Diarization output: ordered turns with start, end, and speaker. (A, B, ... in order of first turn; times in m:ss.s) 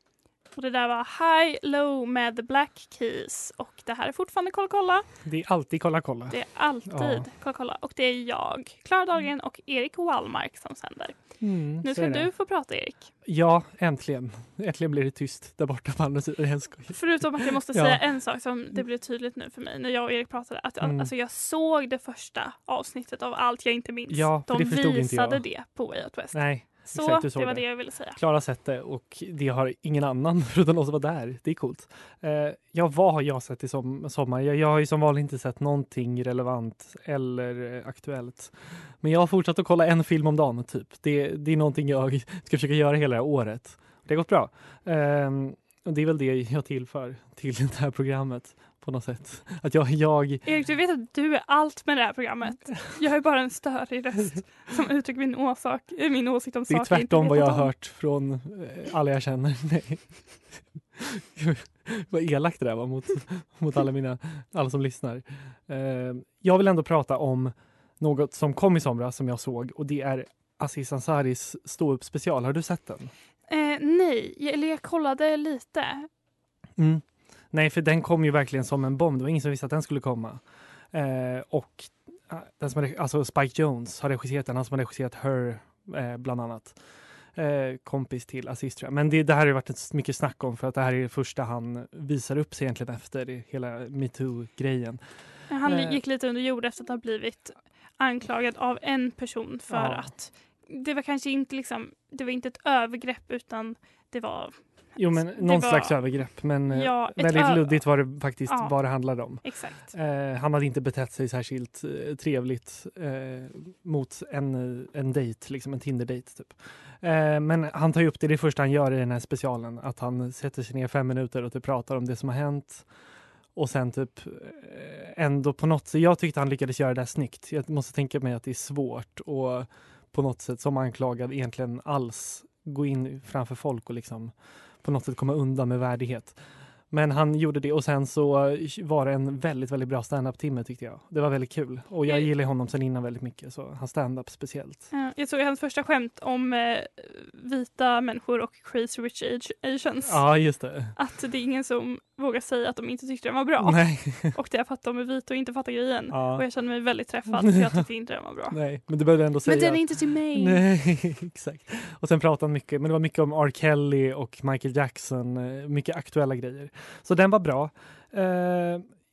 0:00.5-0:05.0 A
0:05.2-0:07.3 B
0:06.3-0:13.1 A
0:11.4-0:12.3 B
0:13.2-0:18.0 B
0:16.9-0:28.2 A
0:20.8-0:21.1 B
0:24.1-0:25.4 B
0:26.3-0:50.4 B
0:50.4-0:57.7 A
0:56.7-1:00.4 B
1:01.0-1:13.1 B
1:13.5-1:16.1 A
1:16.8-1:26.8 B
1:27.3-1:35.0 B
1:35.5-1:46.0 A
1:35.6-1:36.0 B
1:39.7-1:40.1 B
1:45.0-2:02.9 B
1:46.7-1:47.9 A
1:48.4-1:48.7 A
1:49.4-1:49.9 A
2:03.5-2:16.4 B
2:16.9-2:24.8 B
2:24.9-2:30.2 A
2:30.0-2:31.0 B
2:31.0-2:38.6 A
2:33.6-2:34.4 B
2:36.1-2:36.4 B
2:37.3-2:37.8 B
2:38.5-2:48.8 B
2:39.4-2:40.6 A